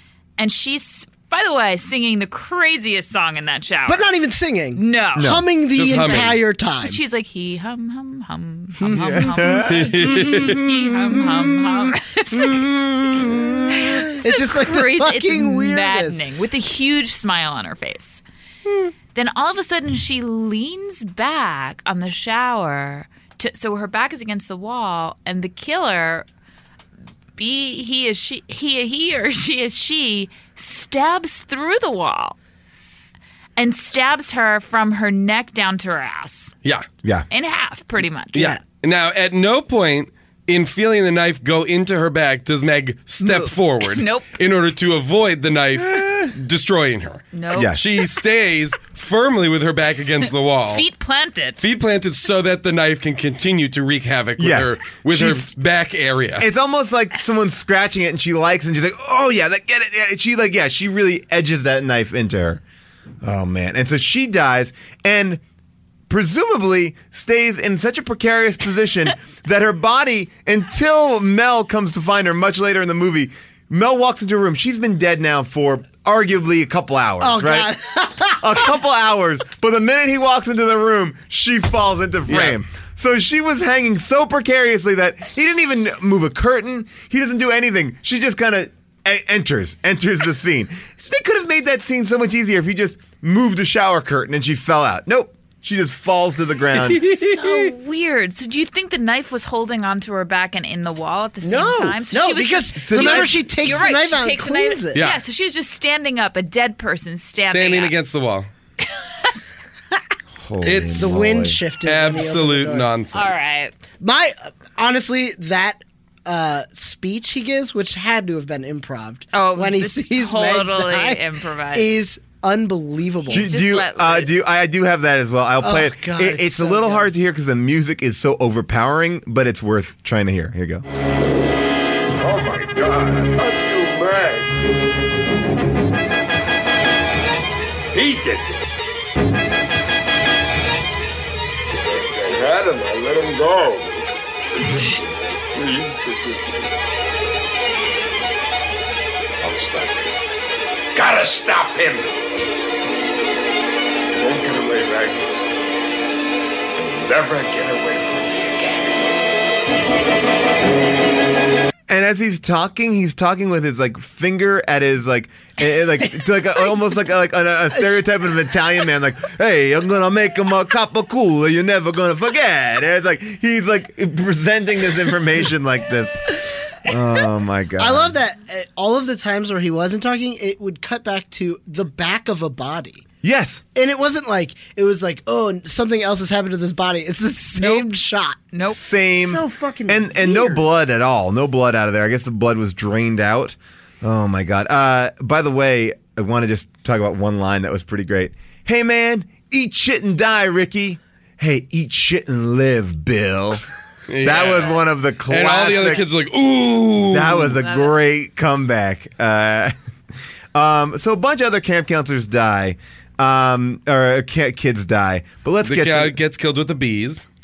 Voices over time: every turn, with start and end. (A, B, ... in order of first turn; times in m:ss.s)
0:00.4-0:04.1 A
0:03.8-0:07.0 B
0:04.7-0:05.4 A
0:05.2-0:05.4 C
0:05.7-0:06.4 D
0:05.9-0:12.6 A
0:08.8-0:09.6 B
0:08.9-0:10.8 C
0:09.6-0:10.6 D
0:12.4-0:14.0 C
0:13.7-0:18.2 A
0:14.0-0:16.2 B
0:19.1-0:26.2 A
0:27.4-0:32.4 A
0:33.6-0:36.6 A
0:37.3-0:38.5 A
0:38.3-0:50.8 D
0:43.2-0:44.3 A
0:47.3-0:47.8 A
0:47.5-0:47.8 C
0:50.7-0:51.6 A
0:51.6-0:56.5 D
0:54.4-0:55.5 C
0:56.4-1:02.6 C
1:03.2-1:05.4 C
1:06.1-1:17.7 C
1:17.2-1:18.7 B
1:18.4-1:37.1 C
1:22.3-1:22.6 D
1:36.8-1:37.7 D
1:37.0-1:47.9 A
1:41.4-1:42.0 C
1:42.1-1:45.0 B
1:42.8-1:43.4 C
1:44.9-1:45.2 D
1:47.4-1:48.5 D
1:50.4-1:51.6 C
1:50.6-1:51.2 D
1:50.9-1:52.9 B
1:51.8-1:53.4 D
1:53.1-1:53.7 A
1:54.0-2:01.2 B
1:59.3-2:01.9 A
2:01.7-2:03.5 B
2:03.3-2:04.4 A
2:03.3-2:10.8 C
2:05.6-2:07.1 B
2:12.2-2:14.6 E
2:17.9-2:18.6 E
2:21.7-2:26.7 E
2:29.4-2:30.1 E
2:30.9-2:32.2 E
2:34.1-2:35.4 E
2:36.7-2:39.0 E
2:41.9-2:58.2 C
2:57.8-3:03.0 B
3:03.2-3:03.6 C
3:03.7-3:08.4 B
3:08.5-3:08.8 A
3:08.7-3:23.6 C
3:09.2-3:10.6 B
3:24.1-3:27.6 D
3:24.2-3:26.0 C
3:27.1-3:29.7 C
3:27.6-3:28.0 A
3:30.5-3:36.2 C
3:35.6-3:37.2 D